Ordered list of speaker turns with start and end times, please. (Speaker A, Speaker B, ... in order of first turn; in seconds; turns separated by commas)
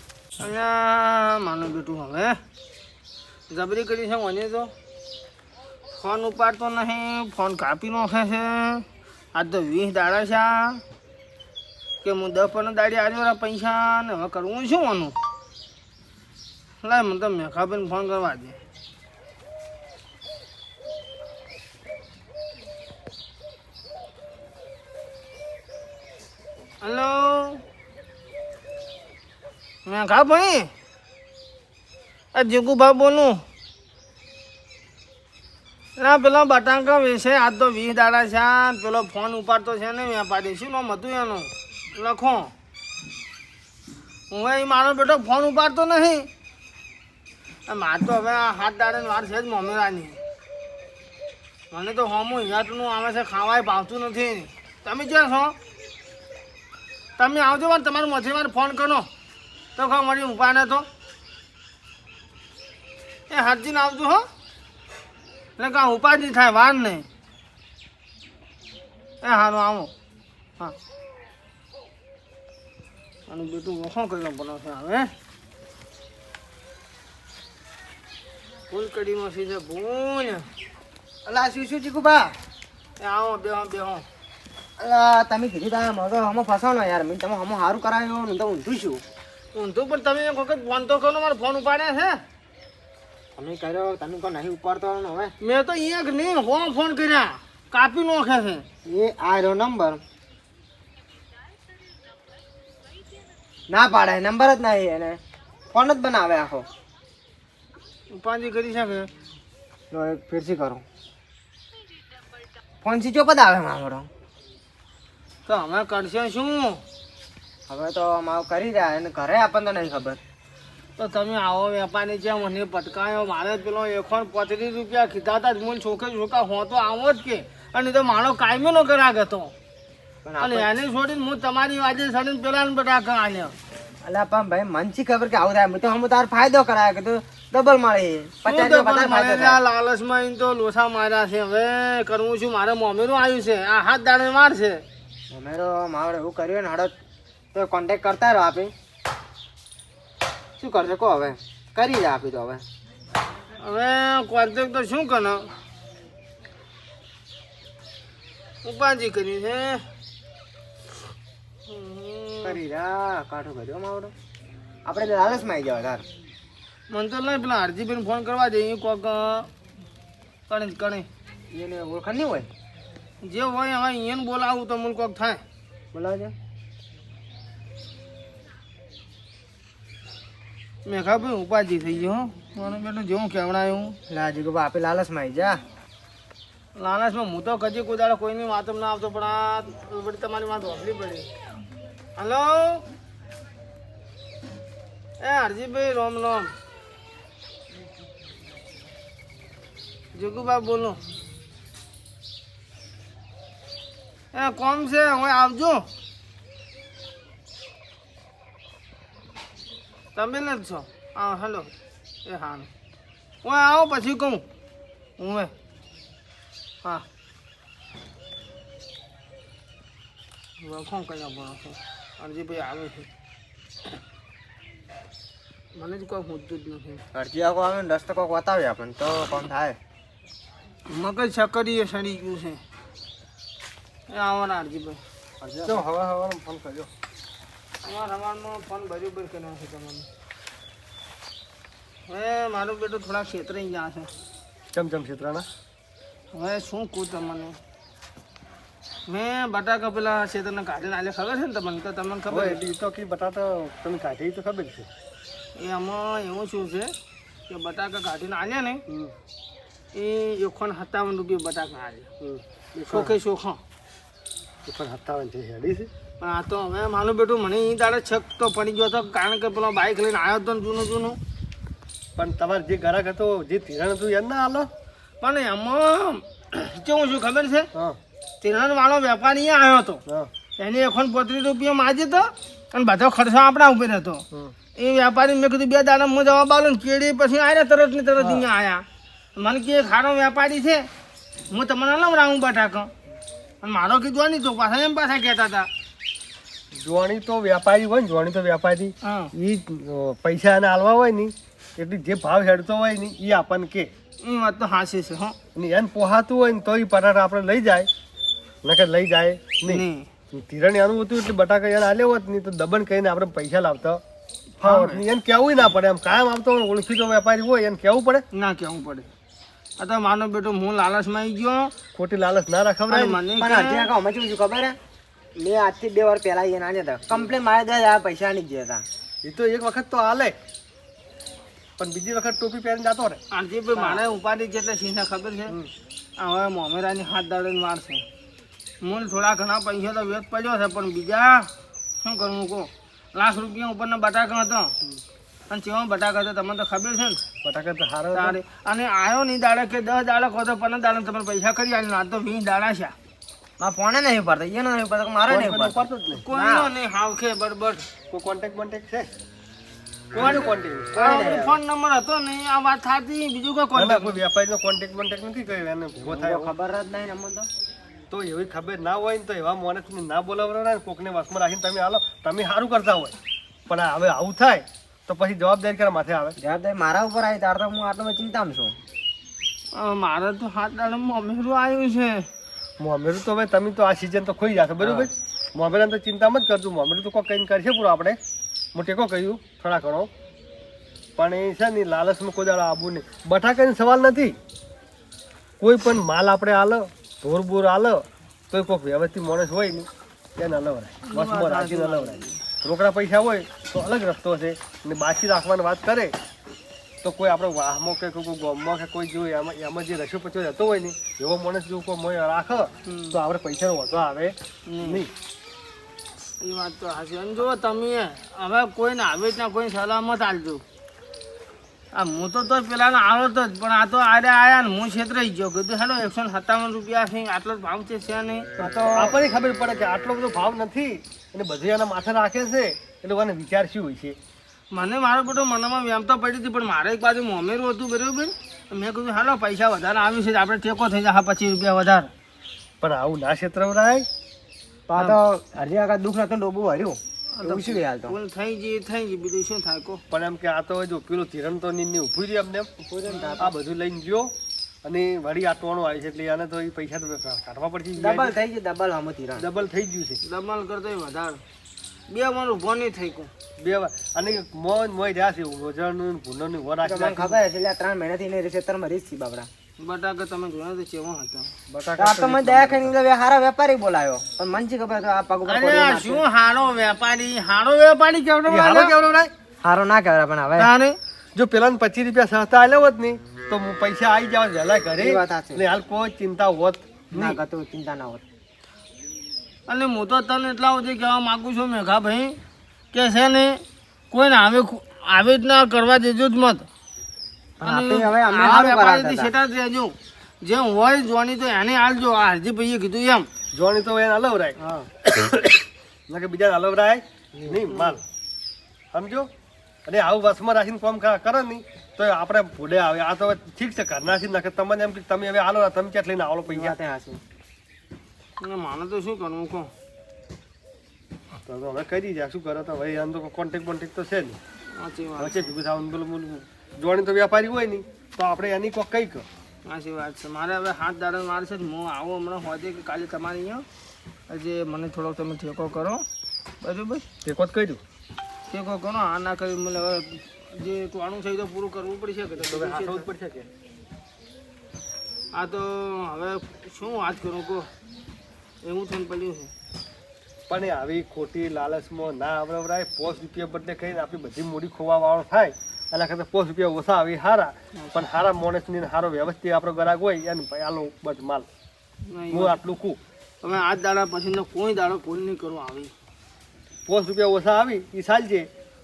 Speaker A: 0.4-2.4, Speaker A: 3.5-4.7, Speaker A: 5.9-10.8, Speaker A: 12.0-15.2, Speaker A: 16.8-18.6, Speaker A: 26.8-27.6, Speaker A: 29.9-30.7, Speaker A: 32.3-33.4, Speaker A: 36.0-42.5, Speaker A: 44.3-46.3, Speaker A: 47.7-50.2, Speaker A: 51.7-55.5, Speaker A: 57.2-59.1, Speaker A: 59.7-60.9, Speaker A: 63.3-64.3, Speaker A: 65.6-67.0, Speaker A: 69.2-69.9, Speaker A: 73.3-75.1, Speaker A: 78.7-80.5, Speaker B: 81.2-82.3, Speaker A: 83.0-84.0, Speaker B: 84.8-89.0, Speaker A: 89.5-92.2, Speaker B: 93.3-95.3, Speaker A: 95.4-98.6, Speaker B: 98.8-100.0, Speaker B: 103.7-105.2, Speaker B: 105.7-106.7, Speaker A: 108.1-109.1, Speaker B: 109.9-110.8, Speaker B: 112.8-114.1, Speaker A: 115.5-116.8, Speaker B: 117.7-120.2, Speaker A: 121.0-129.5, Speaker B: 130.2-130.7, Speaker A: 130.4-133.5, Speaker B: 134.0-139.6, Speaker A: 138.4-144.8, Speaker B: 145.3-146.9, Speaker B: 147.5-148.7, Speaker B: 150.6-152.6, Speaker A: 153.6-155.5, Speaker A: 158.6-159.9, Speaker A: 161.7-162.6, Speaker B: 162.4-164.1, Speaker B: 164.8-166.0, Speaker A: 166.9-169.5, Speaker A: 170.5-171.1, Speaker B: 171.5-172.5, Speaker A: 173.2-175.4, Speaker B: 175.9-176.3, Speaker A: 180.8-184.0, Speaker B: 184.1-185.6, Speaker A: 186.8-191.3, Speaker A: 192.2-192.8, Speaker A: 195.2-196.5, Speaker A: 200.1-201.0, Speaker A: 204.3-205.9, Speaker A: 210.1-211.7, Speaker A: 212.2-212.7, Speaker A: 213.4-214.4, Speaker A: 215.2-215.5, Speaker A: 220.6-223.1, Speaker A: 225.8-227.0, Speaker B: 227.1-229.8, Speaker A: 230.9-232.6, Speaker A: 234.1-235.0, Speaker C: 235.4-236.9, Speaker A: 237.8-240.1, Speaker A: 242.1-244.1, Speaker C: 244.7-245.4, Speaker A: 246.3-247.6, Speaker A: 249.1-252.6, Speaker C: 252.3-254.9, Speaker A: 255.6-256.9, Speaker A: 257.5-258.8, Speaker A: 259.9-262.1, Speaker C: 262.2-263.1, Speaker A: 262.9-263.6, Speaker C: 264.6-265.9, Speaker A: 266.2-271.2, Speaker C: 272.1-274.7, Speaker A: 275.2-277.7, Speaker A: 278.4-280.0, Speaker A: 280.6-284.2, Speaker A: 284.8-288.8, Speaker C: 288.2-288.5, Speaker A: 289.4-290.9, Speaker A: 291.5-292.9, Speaker A: 293.6-295.7, Speaker C: 296.8-303.9, Speaker A: 299.0-299.3, Speaker A: 304.2-305.4, Speaker C: 305.5-307.9, Speaker C: 308.6-314.0, Speaker A: 309.7-310.1, Speaker A: 314.6-315.0, Speaker C: 314.6-318.2, Speaker A: 318.3-319.1, Speaker A: 319.8-321.7, Speaker C: 321.9-323.2, Speaker A: 322.9-323.9, Speaker B: 323.4-324.8, Speaker B: 325.4-328.8, Speaker C: 329.2-330.4, Speaker C: 331.8-333.2, Speaker A: 333.3-335.5, Speaker A: 336.2-338.0, Speaker A: 338.8-341.5, Speaker A: 342.0-344.7, Speaker A: 345.5-347.2, Speaker C: 347.4-348.4, Speaker A: 348.1-352.9, Speaker B: 353.6-356.7, Speaker C: 355.3-356.2, Speaker A: 356.2-357.8, Speaker C: 358.1-359.1, Speaker C: 360.1-360.9, Speaker A: 360.1-364.2, Speaker B: 360.2-361.6, Speaker C: 363.8-366.5, Speaker B: 366.0-367.5, Speaker C: 368.1-373.1, Speaker C: 373.7-376.4, Speaker B: 376.4-378.8, Speaker A: 379.7-382.3, Speaker C: 382.8-388.2, Speaker B: 384.8-385.1, Speaker C: 388.7-390.1, Speaker C: 391.2-394.4, Speaker C: 395.6-406.1, Speaker A: 401.1-402.4, Speaker C: 407.0-415.1, Speaker A: 412.9-413.2, Speaker A: 414.7-415.0, Speaker A: 416.4-420.6, Speaker A: 421.9-428.5, Speaker B: 428.6-429.1, Speaker C: 428.8-434.1, Speaker A: 434.7-442.1, Speaker C: 442.8-444.1, Speaker B: 444.9-448.1, Speaker A: 447.3-450.0, Speaker C: 450.1-452.7, Speaker B: 452.8-453.5, Speaker C: 453.4-454.3, Speaker C: 454.8-458.3, Speaker B: 458.0-459.4, Speaker C: 459.4-460.2, Speaker A: 460.2-461.4, Speaker A: 462.1-463.3, Speaker C: 463.6-467.4, Speaker B: 466.8-469.5, Speaker A: 469.8-471.5, Speaker C: 471.7-472.9, Speaker B: 472.0-476.2, Speaker A: 475.4-478.9, Speaker C: 478.5-479.3, Speaker B: 479.6-480.7, Speaker A: 480.6-481.0, Speaker C: 481.3-487.4, Speaker B: 484.9-485.6, Speaker B: 487.1-488.2, Speaker A: 489.7-492.4, Speaker A: 492.9-496.6, Speaker B: 497.6-499.3, Speaker A: 497.6-503.3, Speaker C: 503.5-504.6, Speaker C: 505.1-508.0, Speaker B: 507.4-507.9, Speaker C: 508.9-509.3, Speaker C: 509.9-516.8, Speaker B: 516.5-517.2, Speaker A: 518.4-519.7, Speaker C: 521.5-524.4, Speaker A: 524.8-525.5, Speaker C: 525.2-529.2, Speaker A: 529.6-533.6, Speaker A: 534.3-536.0, Speaker A: 536.6-537.0, Speaker C: 537.2-537.8, Speaker A: 538.5-543.1, Speaker C: 542.4-543.5, Speaker A: 545.3-547.7, Speaker A: 548.6-549.5, Speaker C: 550.5-561.5, Speaker A: 557.8-558.0, Speaker A: 562.1-562.6, Speaker C: 562.3-563.0, Speaker A: 563.4-565.9, Speaker C: 566.9-568.5